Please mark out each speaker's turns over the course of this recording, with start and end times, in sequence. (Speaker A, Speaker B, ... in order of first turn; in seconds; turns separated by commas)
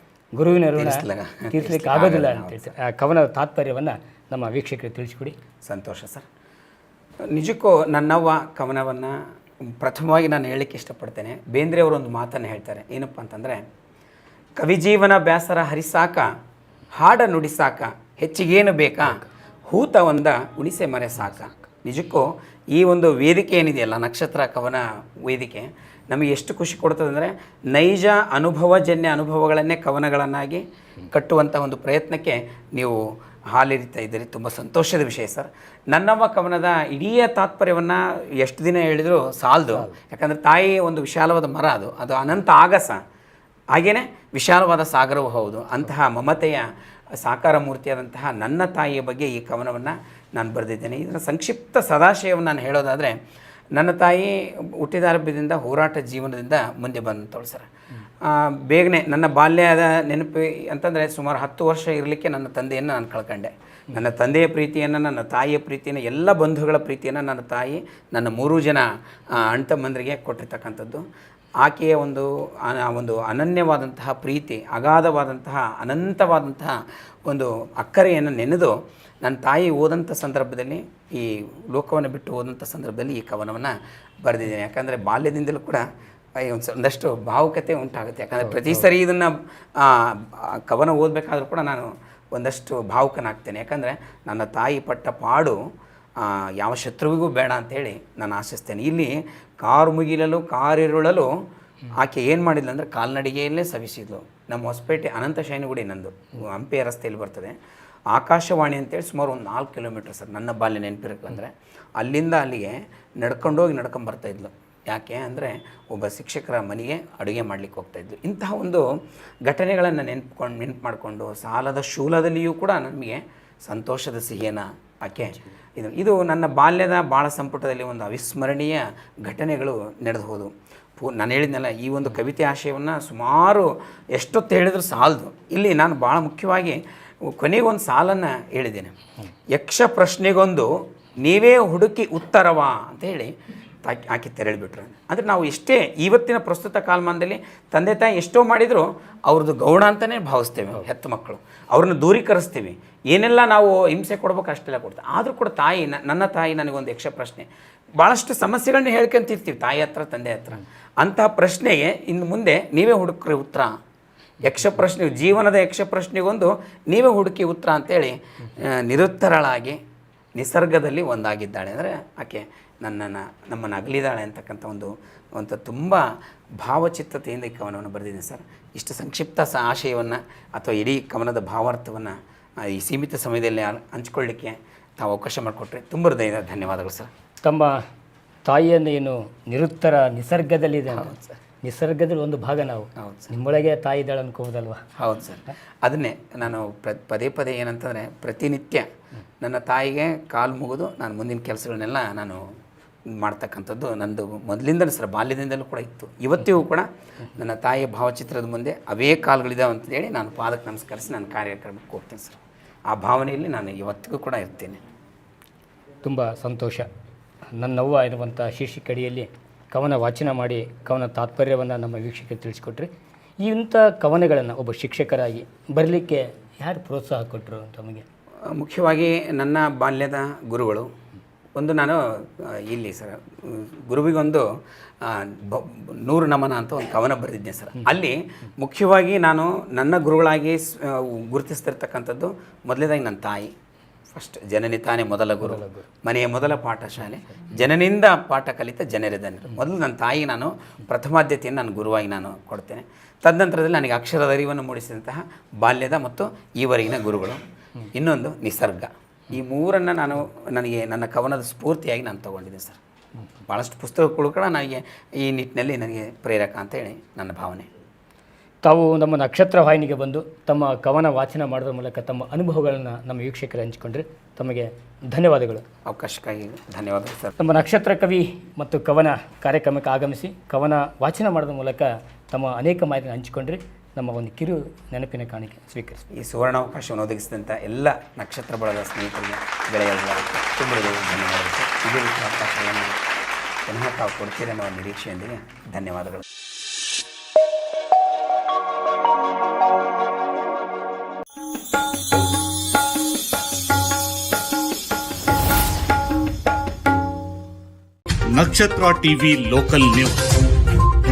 Speaker A: 0.4-5.4, Speaker B: 0.8-2.7, Speaker B: 5.6-6.3, Speaker B: 7.3-13.6, Speaker B: 14.6-16.3, Speaker B: 16.9-33.0, Speaker B: 33.5-43.0, Speaker B: 43.7-53.1, Speaker B: 53.8-57.7, Speaker B: 58.2-71.0, Speaker B: 71.6-85.8, Speaker B: 86.4-95.6, Speaker B: 96.2-101.3, Speaker B: 101.9-107.6, Speaker B: 108.1-118.9, Speaker B: 119.5-138.9, Speaker B: 139.5-143.3, Speaker B: 143.8-157.5, Speaker B: 158.0-163.7, Speaker B: 164.4-169.8, Speaker B: 170.4-176.0, Speaker B: 176.6-187.1, Speaker A: 187.4-187.8, Speaker A: 188.4-194.8, Speaker B: 190.9-191.4, Speaker B: 193.0-193.3, Speaker B: 195.0-198.9, Speaker B: 199.4-202.4, Speaker B: 203.2-212.4, Speaker B: 212.9-214.8, Speaker A: 216.0-216.9, Speaker A: 217.6-222.9, Speaker A: 223.4-228.0, Speaker B: 228.5-230.9, Speaker B: 231.6-234.4, Speaker B: 235.0-243.5, Speaker B: 244.1-262.8, Speaker A: 245.5-245.8, Speaker B: 263.5-267.7, Speaker A: 268.6-275.6, Speaker B: 275.9-277.4, Speaker A: 277.4-286.0, Speaker B: 286.1-293.0, Speaker B: 293.7-296.2, Speaker C: 308.3-310.4